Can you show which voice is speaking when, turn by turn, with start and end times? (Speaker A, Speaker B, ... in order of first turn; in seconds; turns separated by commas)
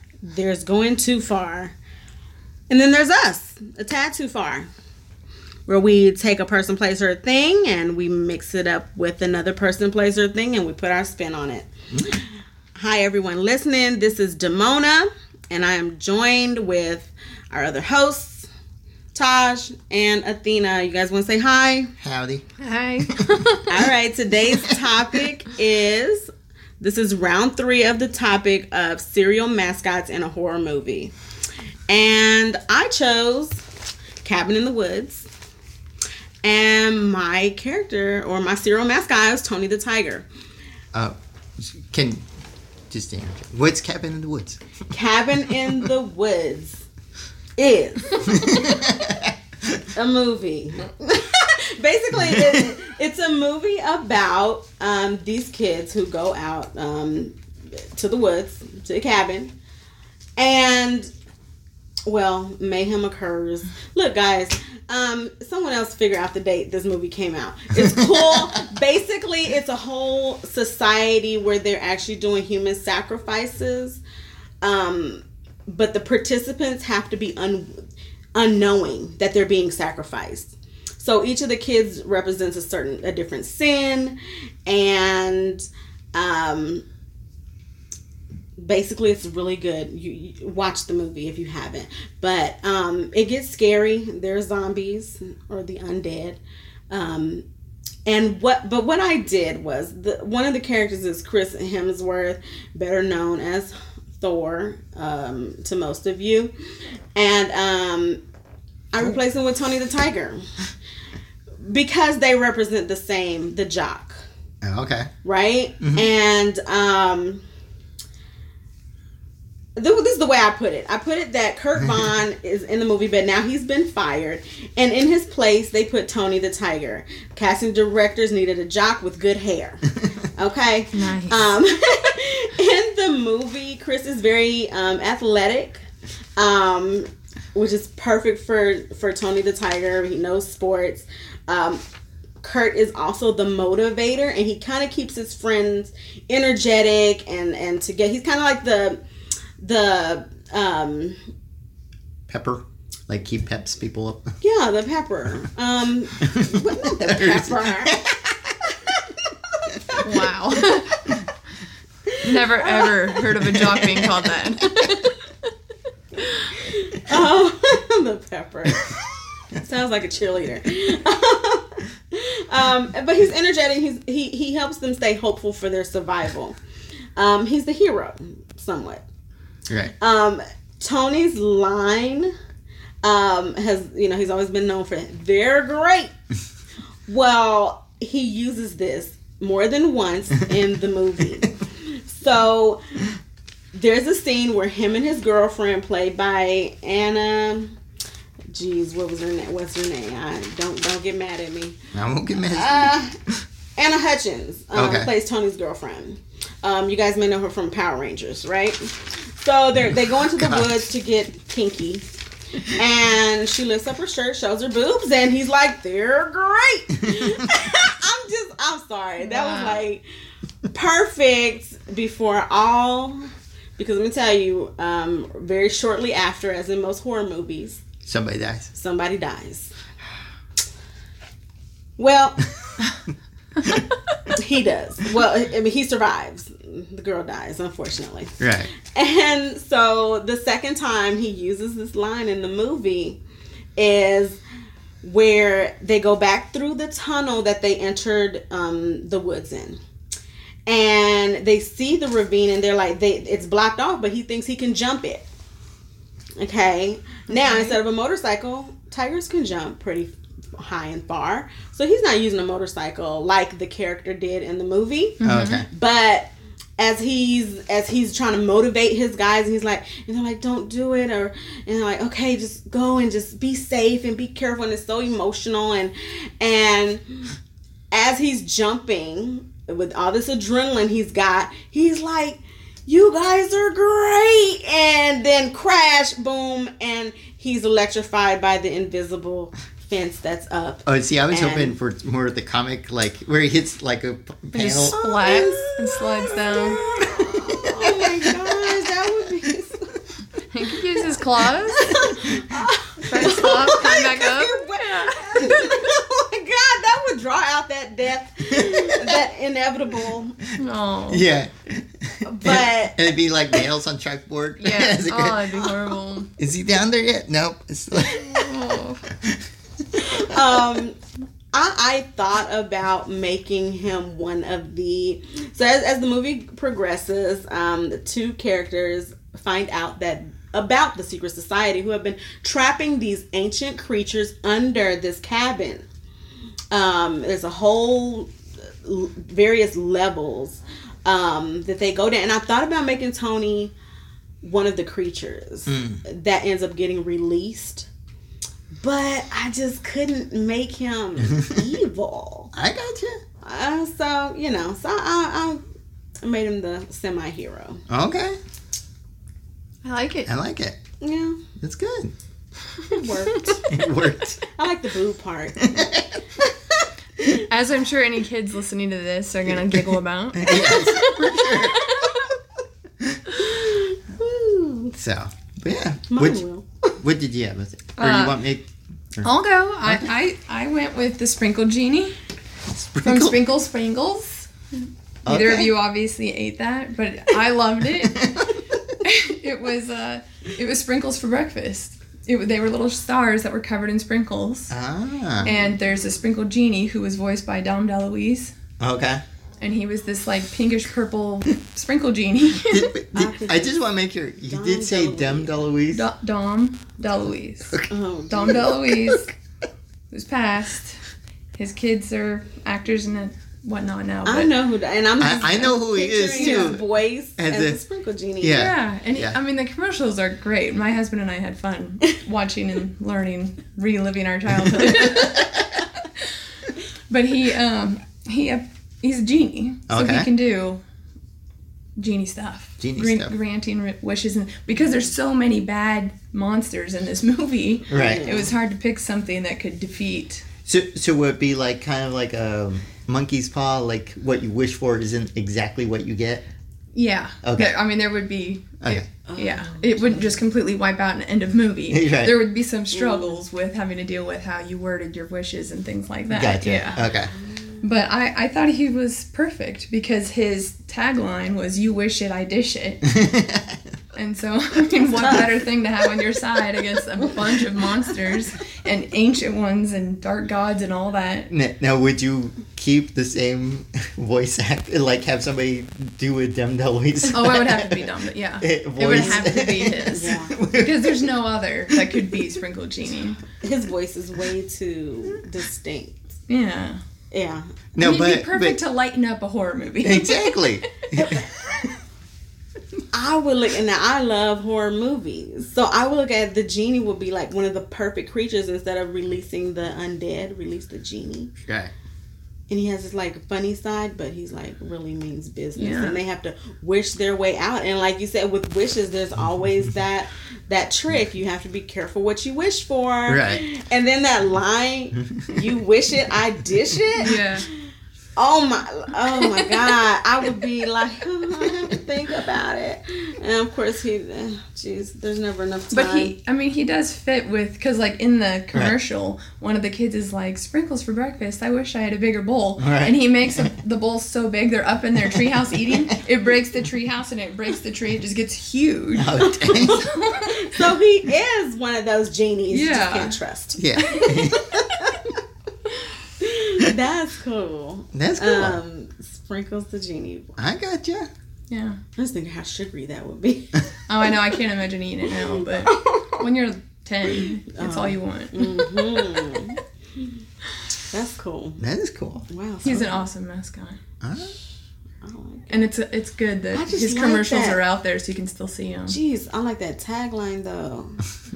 Speaker A: 0.2-1.8, Speaker A: 2.7-4.7, Speaker A: 5.7-11.7, Speaker A: 12.8-18.5, Speaker A: 19.1-21.9, Speaker B: 22.0-22.4, Speaker C: 22.6-23.9, Speaker A: 23.7-26.3, Speaker A: 26.8-31.1, Speaker A: 31.9-33.6, Speaker A: 34.2-35.3, Speaker A: 36.4-40.3, Speaker B: 40.9-42.2, Speaker B: 42.9-44.6, Speaker A: 44.9-46.9, Speaker A: 47.6-48.6, Speaker B: 48.3-49.3, Speaker A: 50.0-57.4, Speaker A: 57.9-59.5, Speaker A: 60.4-61.1, Speaker A: 62.1-74.0, Speaker A: 74.6-77.7, Speaker A: 78.3-86.8, Speaker A: 88.6-97.5, Speaker A: 98.1-106.5, Speaker A: 107.2-108.2, Speaker A: 108.9-110.5, Speaker A: 111.7-114.2, Speaker B: 114.6-115.1, Speaker A: 115.2-117.4, Speaker B: 115.8-116.1, Speaker A: 119.8-135.8, Speaker B: 121.8-122.1, Speaker C: 130.9-131.5, Speaker A: 136.4-141.8, Speaker A: 142.4-149.0, Speaker A: 149.6-151.2, Speaker B: 152.3-154.3, Speaker A: 154.4-158.1, Speaker B: 156.2-158.9, Speaker C: 160.0-161.0, Speaker C: 162.2-165.5, Speaker A: 162.5-163.0, Speaker B: 163.4-164.3, Speaker C: 166.2-166.5, Speaker A: 166.6-169.0, Speaker A: 169.6-176.6, Speaker A: 177.2-179.1, Speaker A: 180.0-182.3, Speaker A: 183.0-186.1, Speaker A: 187.1-192.8, Speaker A: 193.7-197.8, Speaker A: 198.5-201.8, Speaker B: 201.9-203.0, Speaker A: 202.4-203.2, Speaker A: 203.8-212.1, Speaker B: 204.8-205.1, Speaker B: 210.4-210.8, Speaker A: 212.7-220.1, Speaker C: 219.2-219.8, Speaker A: 220.7-227.8, Speaker B: 228.1-228.7, Speaker A: 228.7-229.7, Speaker A: 232.0-232.5, Speaker A: 234.3-243.2, Speaker B: 238.4-238.7, Speaker A: 243.8-244.4, Speaker A: 245.0-249.8, Speaker A: 250.7-255.2, Speaker A: 256.4-277.2, Speaker C: 257.3-257.8, Speaker C: 265.2-265.6, Speaker B: 265.2-265.7, Speaker A: 277.9-291.8, Speaker B: 290.9-295.0, Speaker C: 294.5-296.8, Speaker A: 294.9-299.9, Speaker C: 300.5-302.2, Speaker A: 301.7-310.4, Speaker C: 303.0-305.9, Speaker B: 303.1-303.6, Speaker B: 308.5-309.2, Speaker C: 310.6-311.2, Speaker B: 311.1-315.7, Speaker A: 312.2-313.0, Speaker C: 314.6-316.3, Speaker B: 316.4-318.6, Speaker C: 318.0-319.1, Speaker A: 320.0-321.0, Speaker A: 321.5-335.9, Speaker A: 336.7-338.3, Speaker A: 338.8-343.7, Speaker A: 344.4-347.9, Speaker B: 345.7-346.0, Speaker A: 348.8-352.5, Speaker B: 351.2-351.6, Speaker B: 352.5-353.2, Speaker A: 353.4-355.6, Speaker A: 356.2-357.8, Speaker B: 357.9-358.4, Speaker C: 359.8-360.3, Speaker B: 360.3-360.8, Speaker A: 361.0-361.4, Speaker B: 361.6-362.1, Speaker C: 362.8-363.5, Speaker A: 362.9-363.6, Speaker B: 363.7-364.4, Speaker A: 364.5-365.7, Speaker B: 365.6-366.1, Speaker C: 367.4-372.3, Speaker B: 369.5-371.9, Speaker A: 373.4-374.9, Speaker B: 375.0-376.4, Speaker A: 376.1-376.9, Speaker B: 377.0-379.3, Speaker C: 378.0-378.4, Speaker C: 379.2-382.2, Speaker B: 379.8-380.1, Speaker B: 382.7-383.4, Speaker C: 383.0-384.5, Speaker B: 385.2-385.7, Speaker C: 385.3-388.3, Speaker B: 388.1-388.8, Speaker C: 389.0-394.7, Speaker B: 394.7-395.6, Speaker C: 395.4-398.5, Speaker B: 398.8-399.2, Speaker C: 399.6-402.9, Speaker B: 402.7-406.1, Speaker A: 403.1-403.7, Speaker A: 404.5-405.5, Speaker C: 405.9-409.3, Speaker B: 407.7-409.2, Speaker A: 407.9-408.7, Speaker C: 410.1-411.0, Speaker C: 411.6-414.5, Speaker A: 414.2-418.6, Speaker B: 415.2-416.9, Speaker C: 416.2-416.8, Speaker B: 417.4-417.8, Speaker B: 418.4-419.4, Speaker C: 418.5-426.3, Speaker B: 424.6-425.3, Speaker C: 427.1-430.8, Speaker B: 429.9-430.3, Speaker C: 432.0-440.4, Speaker B: 432.8-433.3, Speaker B: 437.9-438.4, Speaker A: 437.9-438.5, Speaker B: 440.7-446.4, Speaker C: 446.9-457.0, Speaker B: 447.4-447.8, Speaker A: 449.3-450.4, Speaker B: 451.9-452.4, Speaker A: 452.9-453.4, Speaker B: 456.3-457.3, Speaker A: 457.0-457.8, Speaker C: 457.8-463.1, Speaker B: 463.1-463.8, Speaker C: 464.1-471.5, Speaker B: 471.5-481.3, Speaker C: 477.3-483.4, Speaker A: 479.1-479.5, Speaker A: 480.1-480.6, Speaker B: 481.9-482.4, Speaker A: 483.6-486.2, Speaker C: 486.5-487.0, Speaker A: 487.3-487.6, Speaker B: 487.9-488.8, Speaker C: 488.0-491.1, Speaker B: 490.0-491.4, Speaker A: 491.1-491.7, Speaker A: 493.1-501.5, Speaker B: 501.6-501.9, Speaker A: 502.7-517.4, Speaker C: 505.8-506.2, Speaker B: 513.3-513.6, Speaker C: 517.2-517.7, Speaker A: 518.4-526.3, Speaker C: 519.4-519.9, Speaker C: 525.9-540.8, Speaker B: 532.8-533.7, Speaker B: 539.1-540.0, Speaker A: 539.4-545.2, Speaker C: 542.7-543.4, Speaker B: 543.8-544.7, Speaker C: 544.1-544.3, Speaker A: 546.4-550.6, Speaker B: 548.1-548.8, Speaker B: 550.6-551.3, Speaker C: 551.7-552.0, Speaker A: 552.2-553.9, Speaker C: 554.1-559.6, Speaker A: 555.4-556.4, Speaker A: 557.3-559.8, Speaker A: 561.1-561.8, Speaker B: 561.8-562.5, Speaker A: 562.5-563.2, Speaker C: 562.8-564.0, Speaker B: 564.2-564.5, Speaker A: 565.2-565.9, Speaker C: 565.7-569.2, Speaker A: 566.7-567.8, Speaker A: 569.1-571.2